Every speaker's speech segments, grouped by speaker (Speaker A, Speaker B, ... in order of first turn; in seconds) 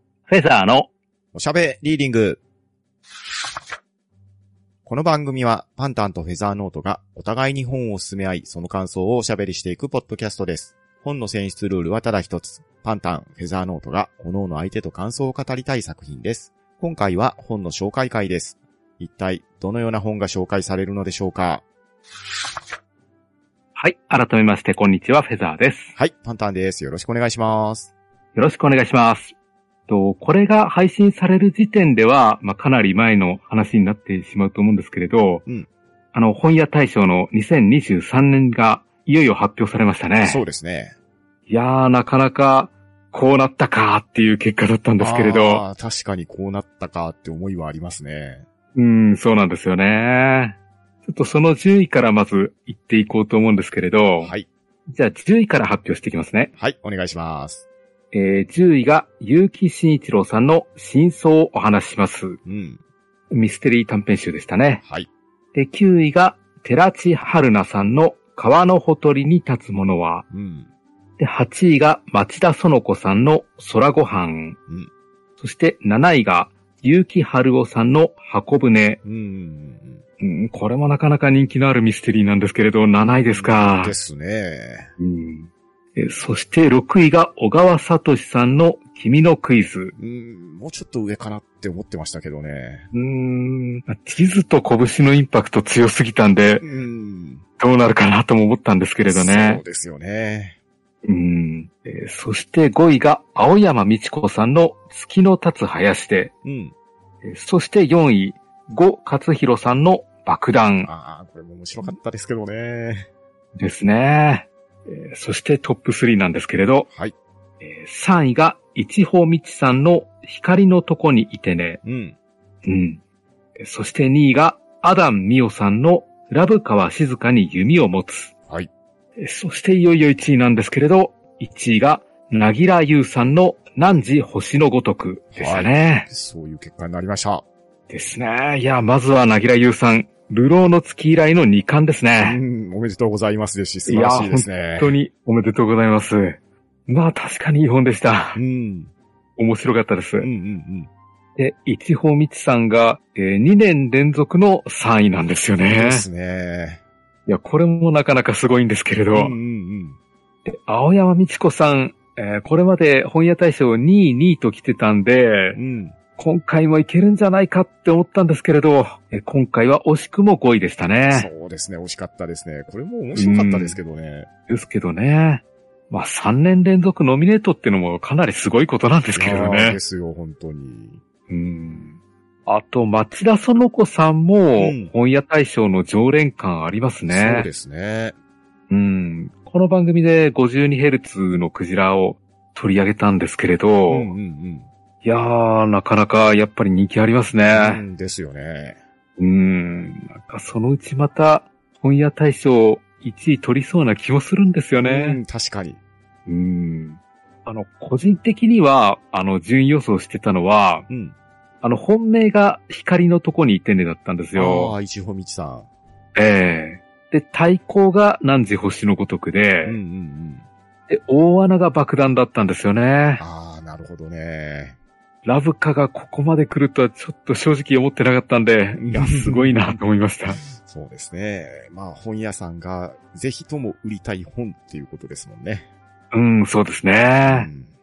Speaker A: 0.3-0.8, 23.8-25.9, 28.3-29.3, 29.9-35.4, 36.1-40.4, 41.5-45.6, 48.7-54.3, 54.9-56.5, 58.1-62.4, 63.3-64.8, 65.5-70.2, 71.2-74.6, 75.4-79.0, 80.2-84.0, 85.0-89.9, 92.9-96.6, 97.6-99.6, 101.0-106.3, 107.2-110.9, 113.6-116.9, 117.6-121.8, 122.6-123.0, 123.6-128.3, 129.2-136.1, 137.9-142.4, 143.9-148.4, 149.4-150.3, 151.4-156.1, 157.3-159.3, 160.4-165.6, 166.2-171.3, 173.1-173.8, 174.5-179.8, 181.3-187.5, 188.7-194.1, 195.0-197.8, 199.2-205.2, 206.3-210.9, 211.6-214.7, 216.2-219.8, 220.9-223.2, 225.2-230.4, 236.1-237.5
Speaker B: 1.3-2.4, 4.8-21.6, 25.9-27.9, 40.2-40.9, 45.0-48.4, 54.2-54.5, 56.6-57.6, 62.5-62.8, 64.8-65.1, 70.3-70.7, 79.0-80.0, 83.0-84.9, 90.0-92.9, 96.6-97.4, 99.0-100.5, 106.4-106.7, 110.8-113.1, 121.8-122.2, 135.3-137.4, 142.2-145.0, 148.3-148.9, 150.2-150.9, 155.7-156.8, 159.1-160.0, 165.5-165.9, 171.1-174.3, 179.1-181.0, 184.6-184.9, 187.1-188.1, 193.9-194.7, 197.5-198.8, 204.8-205.8, 210.9-211.2, 214.3-215.7, 219.6-220.4, 223.2-224.8, 228.8-229.6, 230.3-235.7, 237.2-237.7